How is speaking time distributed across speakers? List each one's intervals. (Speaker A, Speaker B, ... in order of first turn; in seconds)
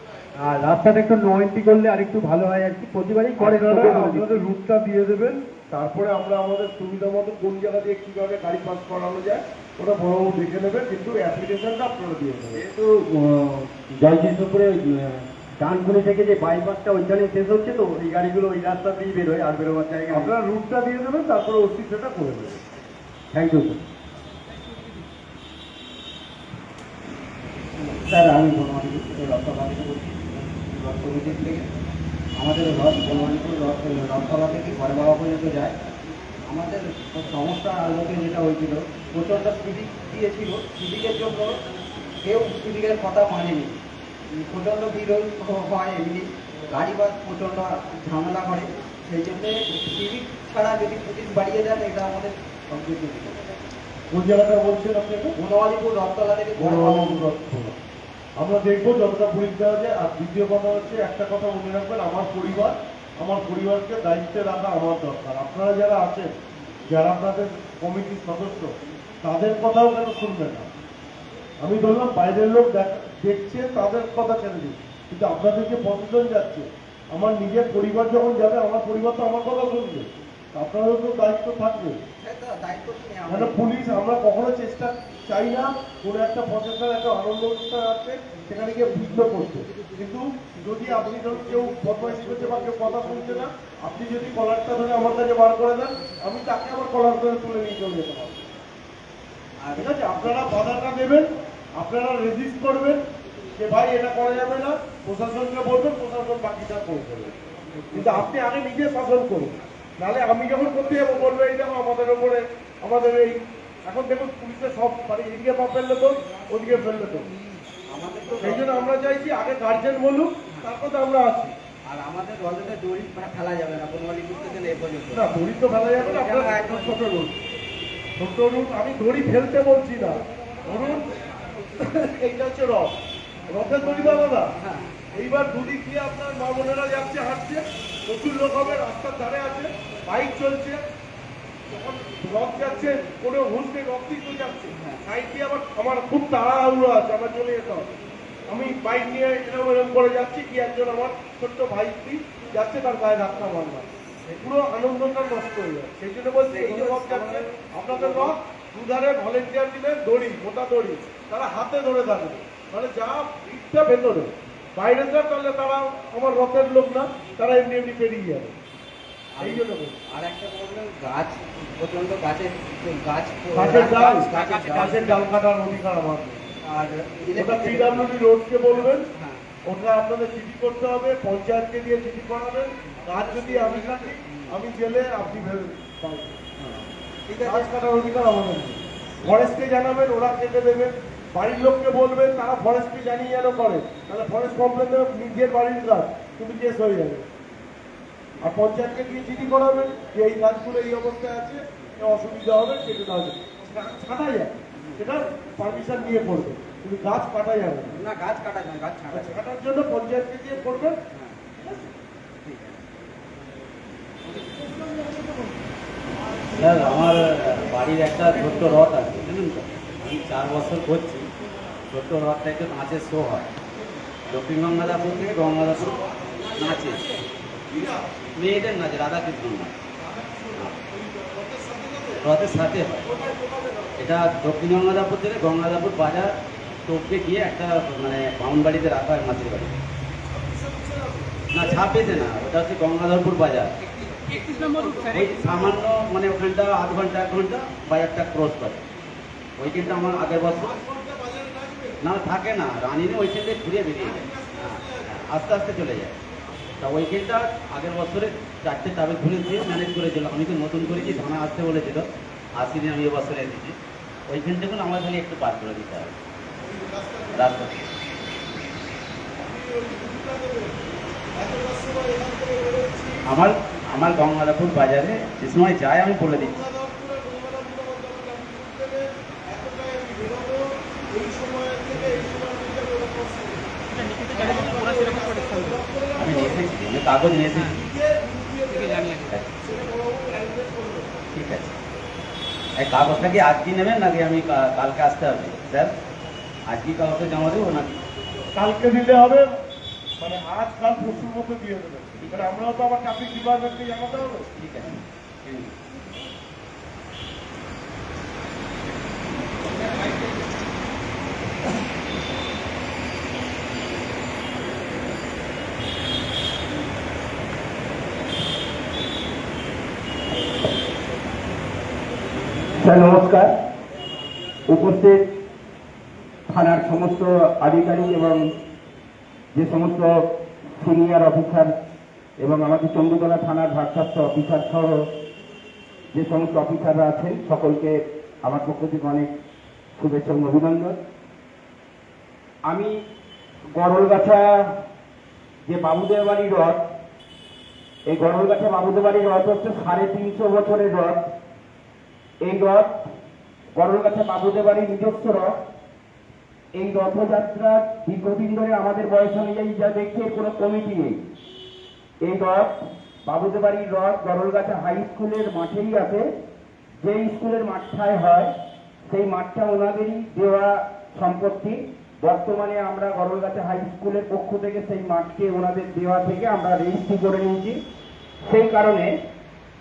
Speaker A: 0.4-4.5, 12.6-20.3, 23.3-23.8
Speaker B: 3.4-12.6, 20.1-22.6, 54.1-55.3, 56.6-57.8, 58.4-66.3, 66.9-70.7, 71.6-82.0, 83.3-98.5, 99.8-103.0, 103.6-107.3, 107.9-117.3, 118.4-121.5, 125.1-127.3, 128.2-131.2, 131.8-133.0, 133.5-134.5, 135.1-140.8, 141.7-147.9, 148.5-168.5, 169.4-170.0, 173.5-176.4, 177.3-179.1, 179.7-186.4, 187.4-197.3, 198.4-208.0, 209.1-211.0, 227.7-228.1, 230.0-232.2, 233.0-234.0, 240.3-242.2, 244.2-245.7, 249.7-252.0, 254.1-255.2, 266.6-267.6, 269.4-270.8, 271.3-273.2, 276.3-283.7, 284.3-286.7, 287.6-291.2, 298.5-299.5, 300.2-304.5
Speaker C: 32.8-33.1, 82.2-83.6, 99.6-100.6, 107.7-108.3, 117.9-118.9, 121.9-125.3, 126.0-127.0, 133.8-135.0, 144.7-145.0, 156.5-158.3, 169.4-175.3, 176.7-178.1, 179.1-179.4, 182.9-184.5, 186.6-187.7, 207.9-209.4, 211.1-211.9, 212.4-212.8, 216.6-221.3, 221.9-223.5, 224.3-226.0, 226.5-227.1, 228.4-229.7, 232.2-233.0, 234.0-236.3, 236.9-239.7, 241.5-243.7, 245.0-248.8, 249.6-250.7, 252.0-256.1, 256.8-262.1, 262.6-263.8, 264.3-266.1, 267.3-267.9, 273.3-276.5, 284.1-285.0, 286.2-287.8, 288.7-289.5, 291.4-291.8, 292.8-295.9, 296.7-298.0, 304.6-304.9, 305.4-305.7
Speaker D: 36.7-37.3, 38.3-38.7, 40.1-41.4, 42.3-43.2, 44.3-52.3, 55.4-56.9
Speaker E: 322.7-323.5, 324.7-325.2, 326.5-328.4, 329.6-330.1, 330.8-331.7, 332.4-335.0, 336.1-339.3, 340.0-341.0, 342.7-342.9, 343.8-344.8, 345.7-346.8, 348.1-351.3, 352.4-353.0, 353.8-355.5, 356.8-361.2, 362.2-366.3, 367.0-368.5, 369.1-377.8, 378.5-379.1